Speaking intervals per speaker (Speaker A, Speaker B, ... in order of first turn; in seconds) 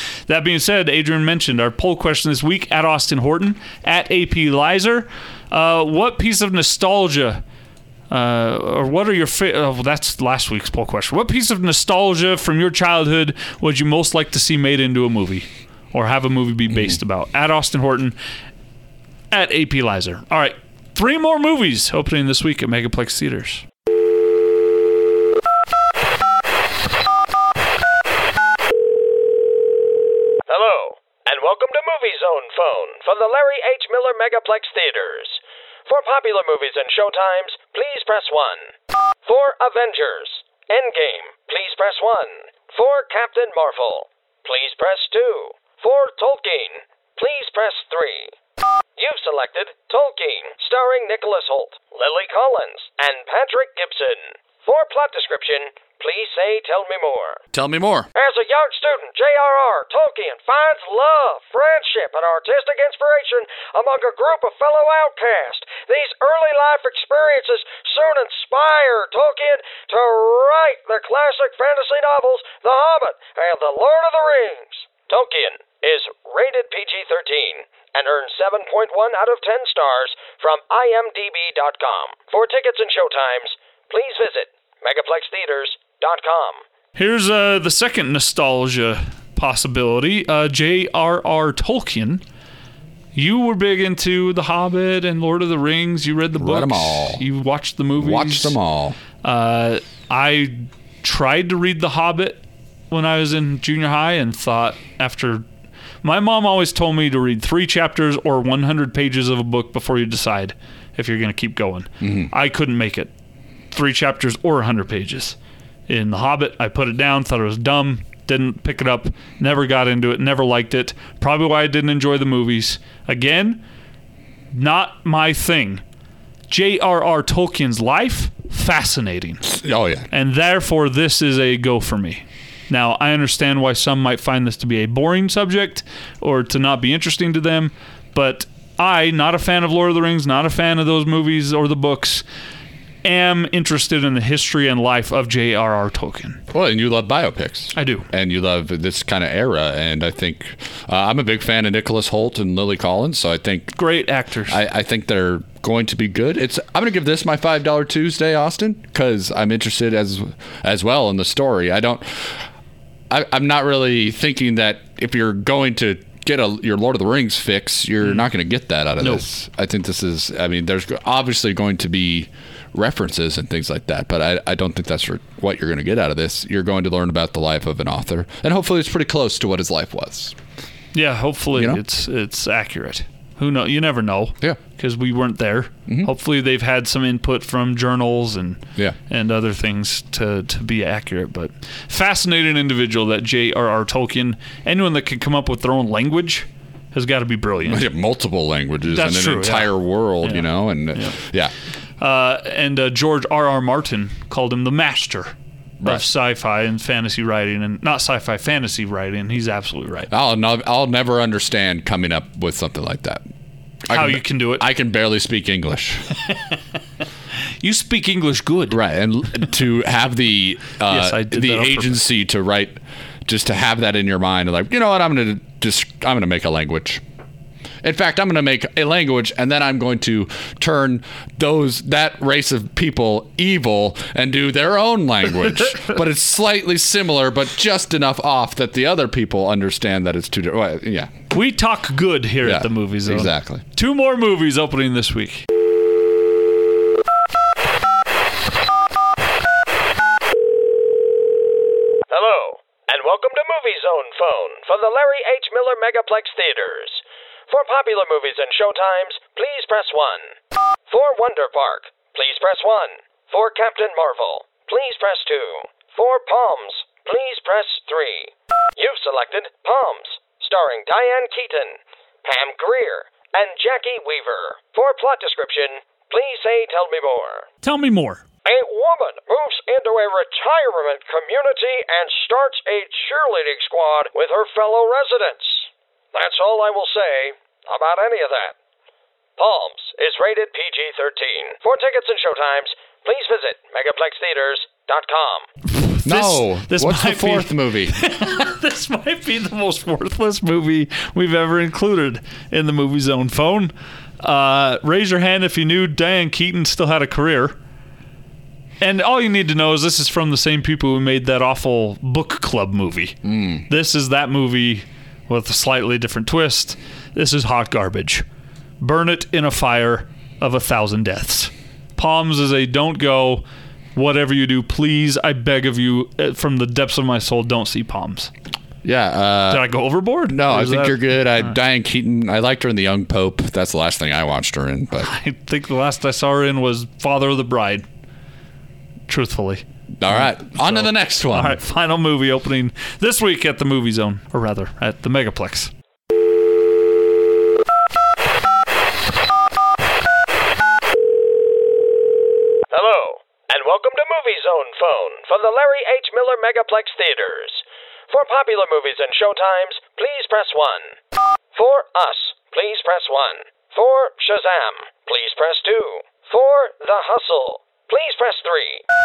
Speaker A: 0.3-7.4, 8.1-18.1, 19.3-23.6, 86.9-92.2, 93.1-98.5, 99.2-105.4, 106.0-113.1, 113.7-115.3, 115.9-123.6, 124.5-125.8, 126.5-129.5, 130.1-142.2, 143.0-146.4, 147.7-148.1, 153.7-154.6, 180.9-197.8, 198.9-201.2, 202.0-210.1, 213.9-214.7, 217.6-218.8, 220.9-222.0, 241.3-245.4, 277.6-278.2, 295.7-307.6, 308.8-318.2, 318.8-323.4, 323.9-328.3, 329.5-331.5, 335.0-337.8, 339.1-345.7
Speaker B: 30.5-38.7, 39.2-48.3, 49.0-57.4, 58.1-86.6, 252.1-260.4, 260.9-277.5, 278.4-288.5, 289.4-295.5, 352.7-361.0, 361.5-368.8
Speaker C: 57.5-58.1, 96.3-97.2, 98.0-99.0, 112.0-112.3, 129.4-130.1, 146.5-153.7, 154.5-162.4, 163.1-180.3, 181.5-181.8, 197.7-201.5, 205.8-206.1, 210.1-213.2, 213.8-216.1, 218.7-227.0, 227.8-241.1, 242.4-243.6, 296.0-297.9, 313.2-313.6, 328.8-329.7, 330.3-335.1, 340.0-341.6